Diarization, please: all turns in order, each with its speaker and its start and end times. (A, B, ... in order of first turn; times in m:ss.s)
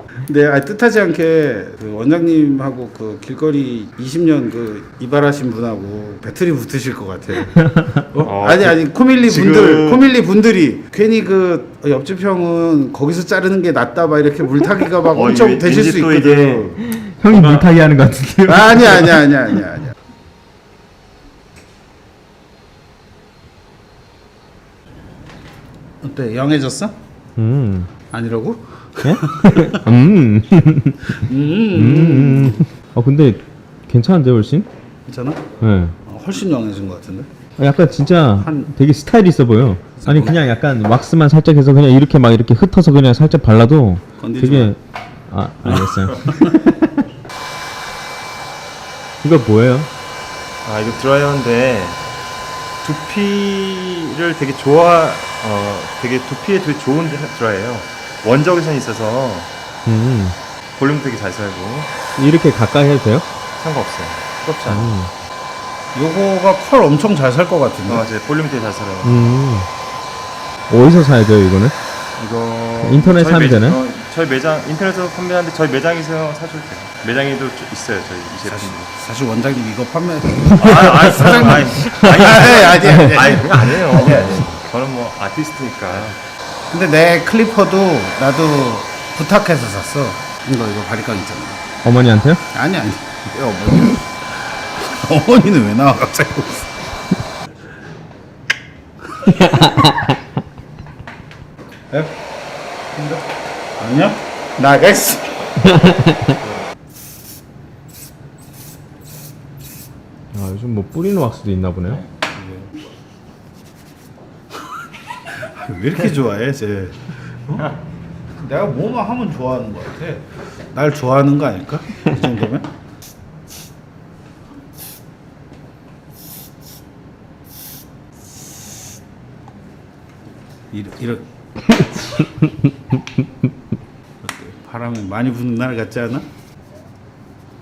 0:00.3-0:16.8 A
0:07.5-0:08.0 B
0:08.2-0:10.1 C
0:15.1-0:16.8 C
0:16.9-0:19.3 B
0:17.3-0:17.6 C
0:18.5-0:19.9 A
0:26.0-0:26.9 A
0:27.4-0:27.9 B
0:28.1-0:29.8 A
0:29.0-0:34.7 B
0:31.2-0:32.6 A
0:35.1-0:35.4 A
0:35.6-0:36.0 B
0:36.1-0:37.3 A
0:37.6-0:44.8 B
0:38.4-0:38.7 A
0:40.0-0:40.4 A
0:44.2-0:44.8 A
0:45.3-0:47.0 B
0:46.3-0:46.6 A
0:49.2-0:49.9 B
0:50.6-0:52.0 C
0:52.8-0:59.5 C
0:59.9-1:00.4 B
1:00.8-1:01.9 C
1:02.2-1:03.3 B
1:03.6-1:05.0 C
1:04.7-1:05.1 B
1:05.9-1:08.1 A
1:07.8-1:09.4 C
1:09.0-1:09.7 B
1:10.7-1:11.8 B
1:12.2-1:18.9 C
1:12.8-1:13.8 B
1:18.3-1:24.4 A
1:20.6-1:26.2 C
1:20.6-1:22.1 B
1:23.4-1:24.2 B
1:26.7-1:31.7 A
1:31.8-1:32.4 B
1:32.5-1:36.9 A
1:39.3-1:40.2 B
1:39.4-1:39.7 A
1:42.9-1:43.2 A
1:43.8-1:45.4 A
1:45.7-1:46.4 B
1:50.3-1:52.0 B
1:52.3-1:52.7 A
1:55.3-1:57.6 A
1:58.4-2:02.7 A
2:10.7-2:11.3 A
2:12.2-2:12.5 B
2:14.2-2:16.2 A